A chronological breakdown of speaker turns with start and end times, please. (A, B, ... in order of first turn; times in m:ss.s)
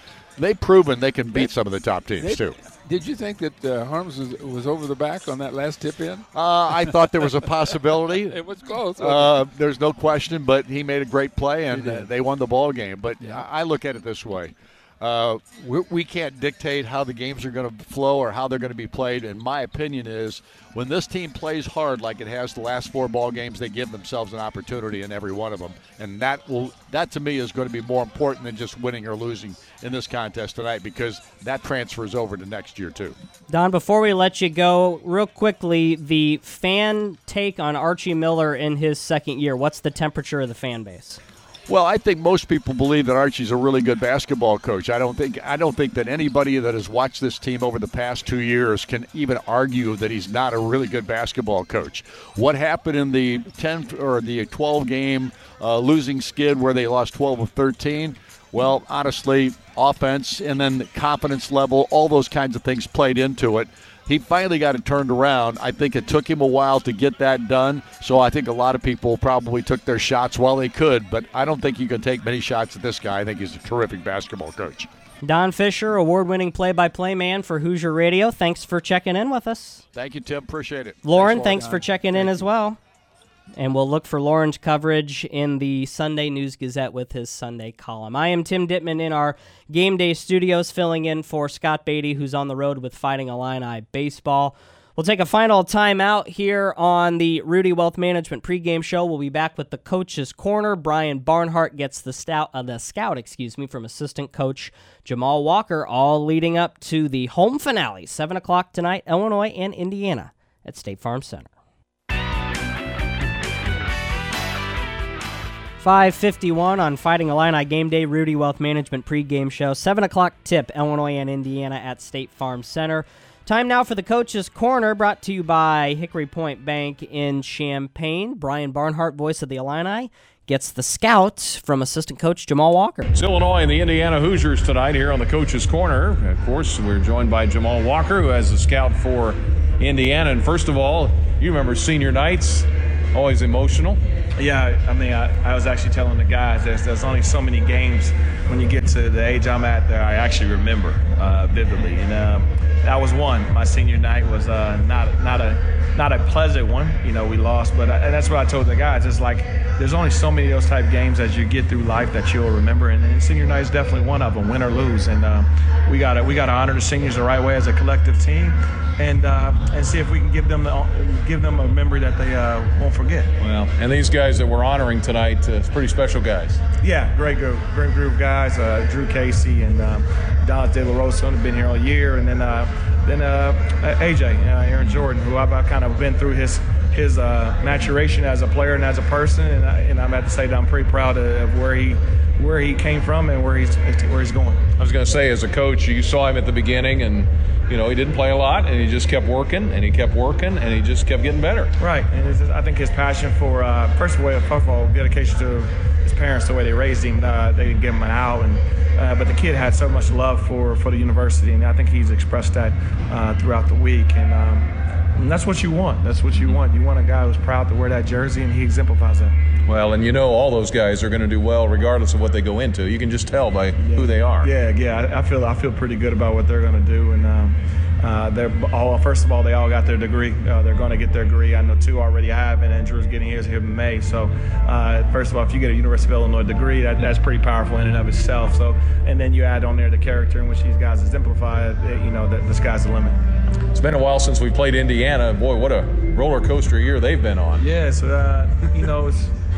0:00.4-0:02.6 A
0:02.2-0:09.4 B
0:06.3-0:08.4 A
0:09.0-0:33.2 A
0:11.7-0:12.1 B
0:33.5-0:41.2 C
0:41.7-1:14.9 A
1:15.2-1:19.8 C
1:19.9-1:22.3 A
1:21.0-1:22.8 C
1:23.6-1:51.5 C
1:55.8-2:13.1 C
2:13.1-2:24.0 D
2:24.4-2:53.4 E
2:53.4-2:56.6 D
2:56.8-3:14.6 E
3:14.8-3:21.7 D
3:21.8-3:39.4 E
3:39.7-3:44.5 D
3:43.8-4:03.2 E
4:03.7-4:07.6 D
4:07.6-4:09.3 E